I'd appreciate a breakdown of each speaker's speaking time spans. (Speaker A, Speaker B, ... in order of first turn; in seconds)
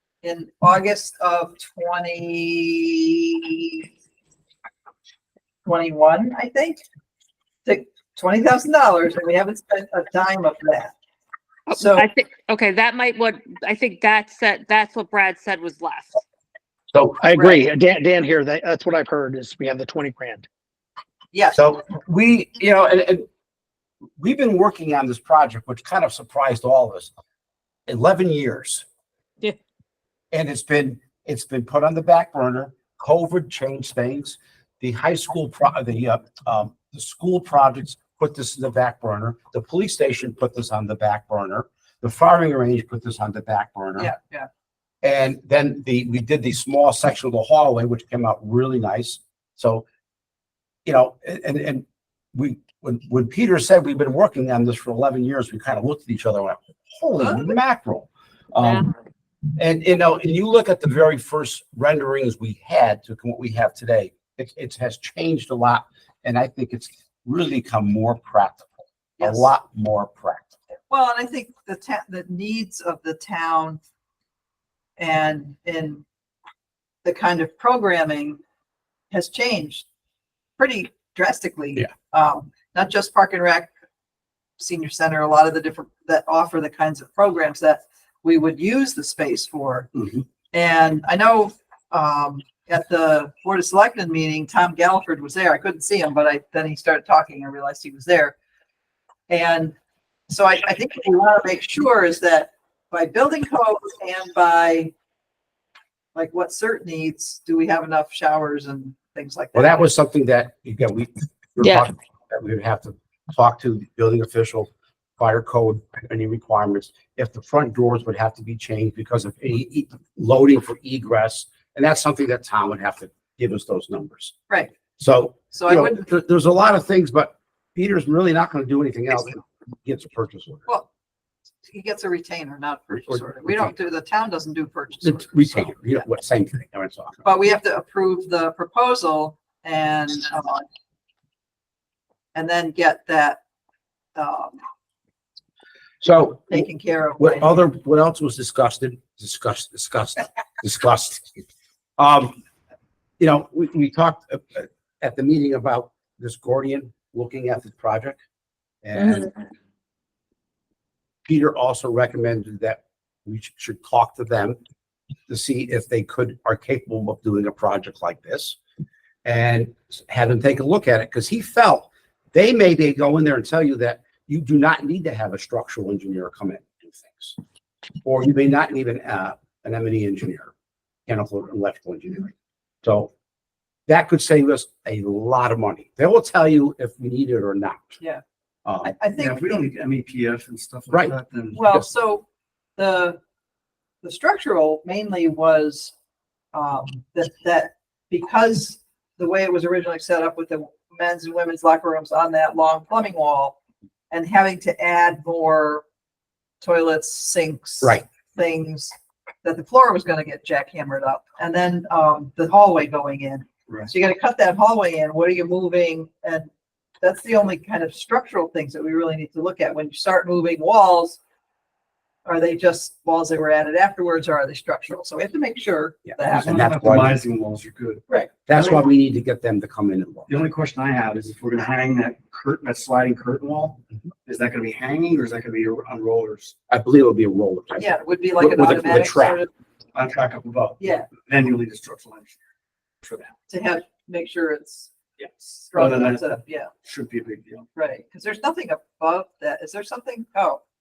Speaker A: 0.2-3.9, 5.7-6.8, 7.7-10.9, 11.7-12.1, 17.3-17.6, 21.3-21.6, 44.0-44.5, 57.2-57.5, 69.2-69.5, 70.9-73.8, 75.0-76.0, 77.0-78.4, 79.1-79.8, 80.6-83.7, 84.6-89.9, 90.5-98.3, 99.3-99.8, 100.3-104.9, 106.2-109.9, 125.5-126.0, 131.6-135.4, 137.2-140.7, 142.3-143.4, 144.2-144.6, 146.5-147.6, 188.8-189.4, 191.5-192.2, 192.8-193.2, 194.0-195.9, 196.5-203.6, 204.1-205.8, 206.6-216.5, 217.0-221.2, 222.2-226.5, 228.1-228.3, 237.8-239.5, 240.8-241.1, 243.5-244.9, 245.7-246.7, 247.8-250.6
Speaker B: 11.7-16.2, 58.6-58.9, 111.6-111.9
Speaker C: 17.2-20.5
Speaker D: 21.6-23.3, 24.2-27.1, 27.9-28.9, 30.3-44.1, 45.0-49.9, 50.9-58.9, 59.6-70.5, 109.5-124.4, 125.0-130.7, 132.9-133.7, 135.0-137.3, 146.0-146.7, 147.2-151.3, 152.0-152.4, 153.2-158.2, 158.8-159.5, 161.3-164.6, 165.3-168.6, 169.2-177.4, 178.0-180.5, 181.1-183.1, 183.9-188.0, 188.7-188.9, 226.1-227.2, 228.5-230.3, 236.7-239.4
Speaker E: 189.1-191.8, 226.3-228.1, 230.3-236.6, 239.9-242.4, 243.0-243.3, 245.2-246.3, 246.8-247.7